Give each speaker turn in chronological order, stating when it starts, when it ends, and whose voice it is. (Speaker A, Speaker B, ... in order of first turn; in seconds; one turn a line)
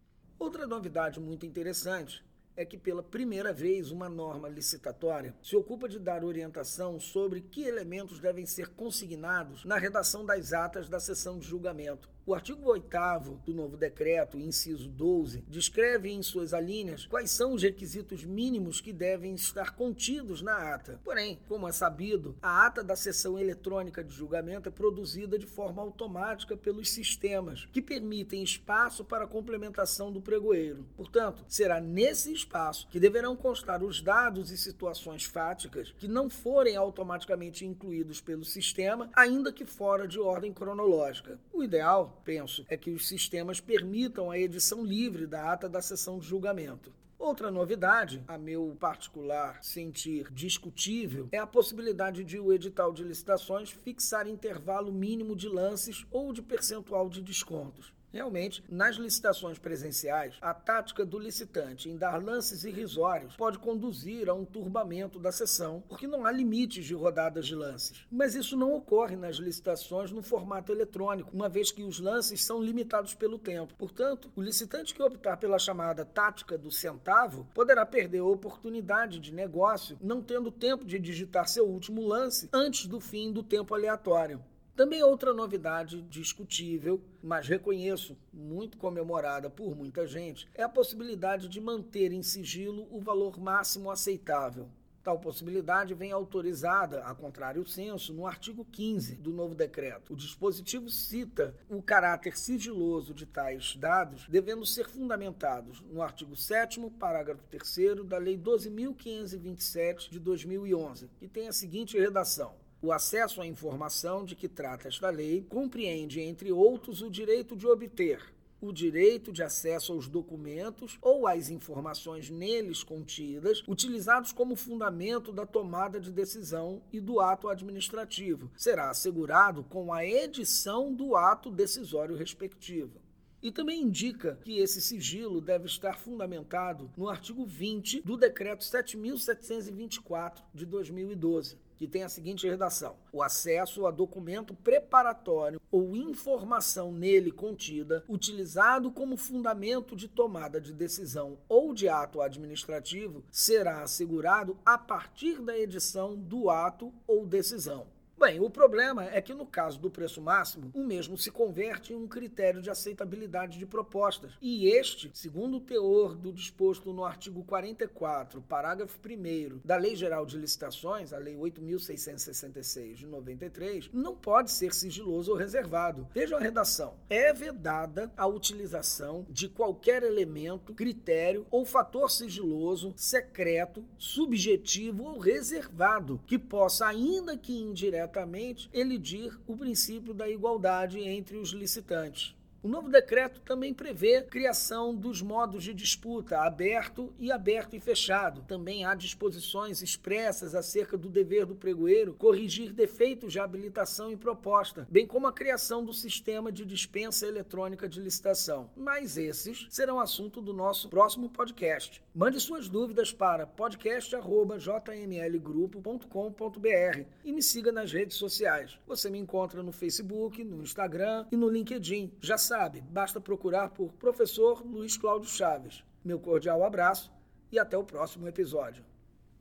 Speaker A: 0.4-228.9